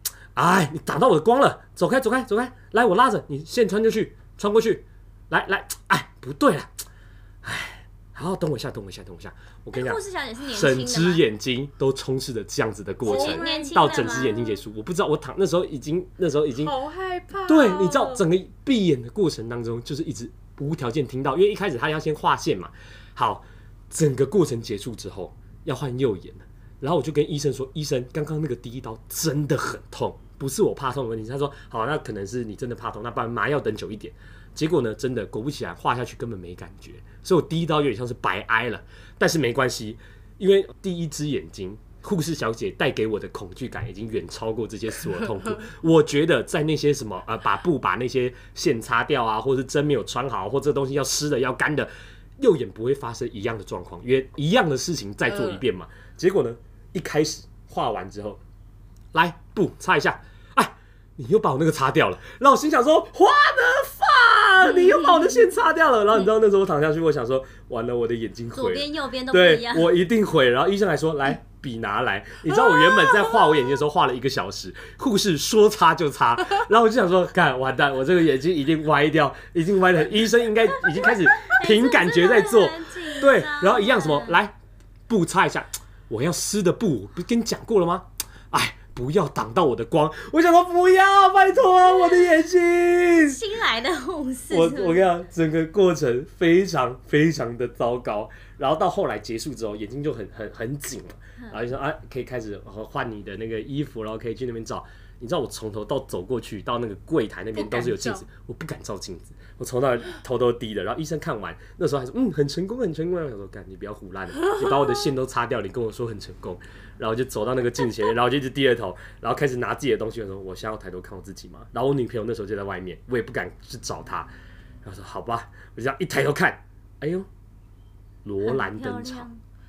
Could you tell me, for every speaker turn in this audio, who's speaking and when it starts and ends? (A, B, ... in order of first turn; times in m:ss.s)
0:00.4-0:06.7 A
0:07.4-0:16.8 A
0:09.7-0:11.2 B
0:13.0-0:14.6 B
0:13.1-0:14.3 C
0:16.6-0:18.2 C
0:17.5-0:58.4 A
0:55.3-0:55.6 C
0:59.1-1:24.6 A
1:04.7-1:05.5 B
1:08.5-1:09.9 B
1:21.4-1:24.4 B
1:25.1-1:33.4 A
1:33.2-1:35.1 B
1:34.5-2:04.3 A
1:47.6-1:48.2 C
2:04.8-2:07.3 A
2:08.2-2:09.3 A
2:08.4-2:09.4 B